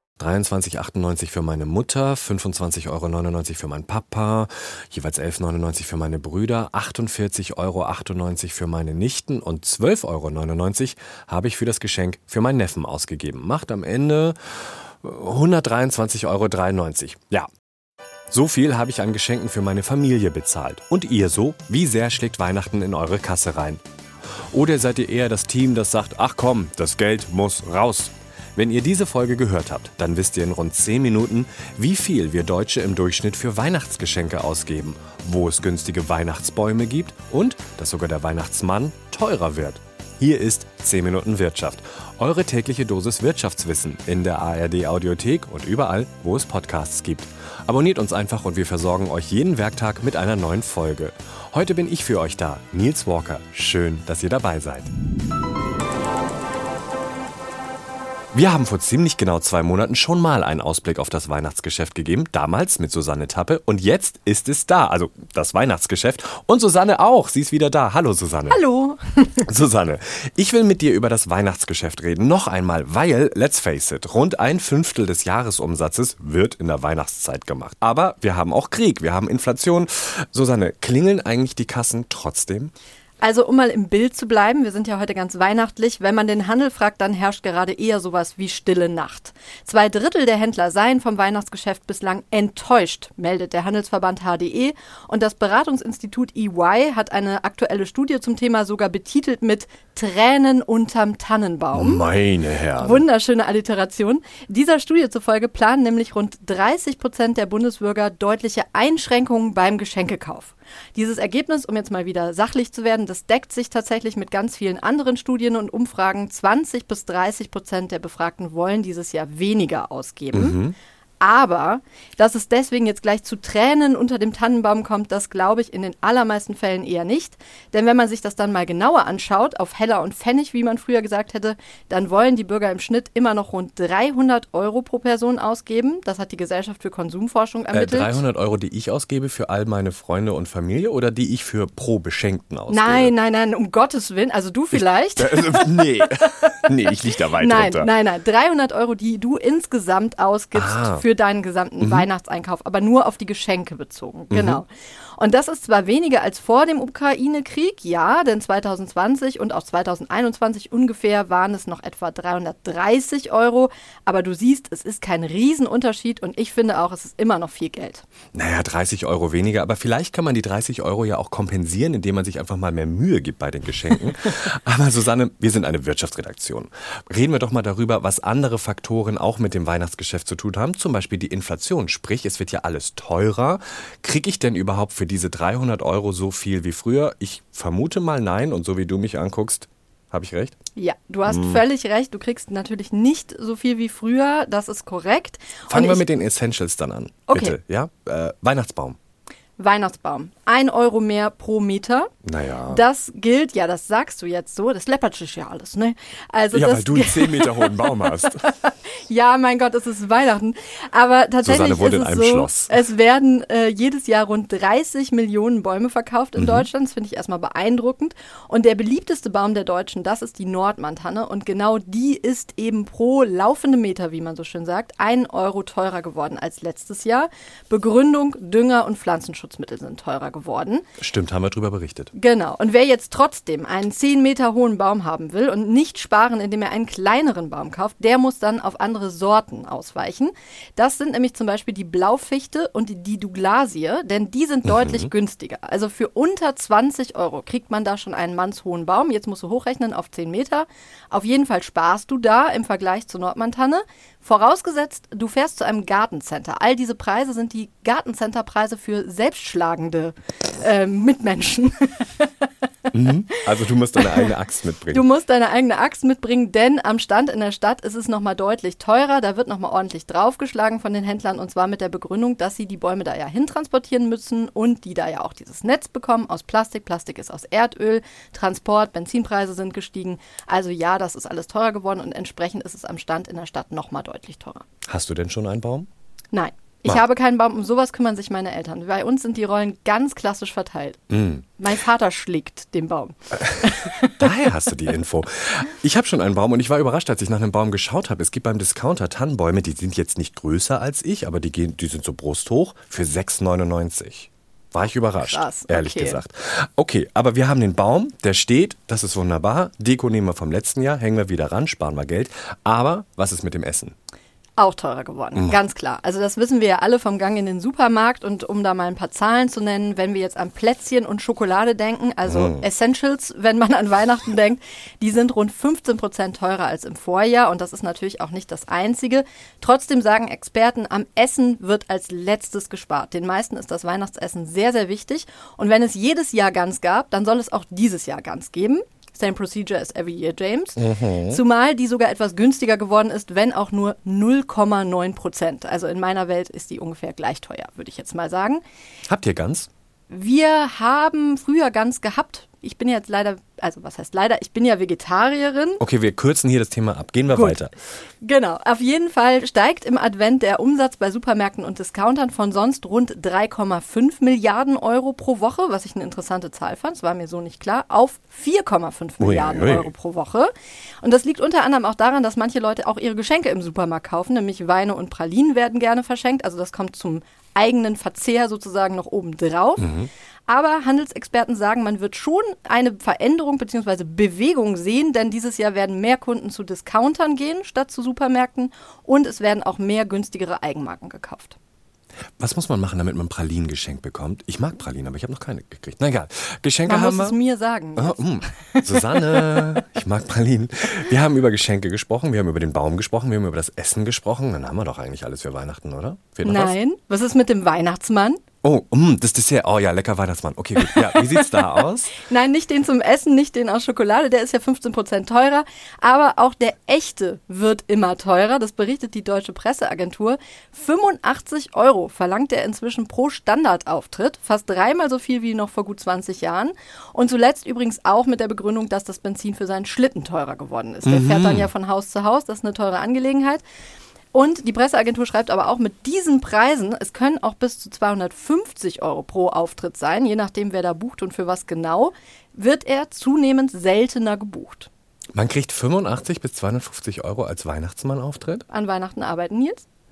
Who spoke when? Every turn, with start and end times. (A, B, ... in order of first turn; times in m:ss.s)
0:00.2-0:17.5 A
0:18.3-0:23.8 A
0:24.5-0:54.9 A
0:58.3-1:08.6 A
1:08.5-1:09.4 B
1:09.4-1:22.7 A
1:23.2-1:42.1 B
1:41.7-1:43.0 A
1:42.8-2:00.6 B
2:00.3-2:00.7 A
2:01.2-2:18.2 B
2:17.7-2:23.1 A
2:22.7-2:48.0 B
2:24.7-2:27.9 A
2:30.5-2:31.0 A
2:31.8-2:32.1 A
2:34.3-2:34.6 A
2:48.3-3:10.6 A
3:10.8-3:16.0 B
3:11.2-3:11.6 A
3:15.7-3:19.0 A
3:17.3-3:17.6 B
3:19.6-3:22.1 B
3:22.2-3:22.8 A
3:22.7-3:50.8 B
3:26.5-3:28.5 A
3:31.4-3:32.8 A
3:36.4-3:36.7 A
3:51.0-3:52.1 A
3:52.1-4:22.9 B
4:04.6-4:05.1 A
4:22.9-4:25.1 A
4:24.0-4:24.3 B
4:24.9-4:44.6 B
4:44.9-4:45.9 A
4:46.3-4:51.0 B
4:51.1-4:51.4 A
4:51.6-4:54.3 B
4:53.5-5:14.0 A
5:05.2-5:06.2 B
5:14.6-5:48.6 B
5:22.3-5:22.6 A
5:40.8-5:41.4 A
5:49.1-5:49.7 A
5:50.1-5:55.8 B
5:55.8-5:57.7 A
5:57.3-5:57.6 B
5:58.2-6:20.0 B
6:09.2-6:09.9 A
6:19.8-6:20.1 A
6:20.5-6:31.6 B
6:32.4-6:37.4 A
6:36.8-6:39.8 B
6:38.0-6:46.8 A
6:46.4-6:48.4 B
6:48.6-6:52.2 A
6:50.8-7:13.6 B
7:11.0-7:11.7 A
7:14.3-7:24.9 B
7:25.3-7:28.6 A
7:28.7-7:29.8 B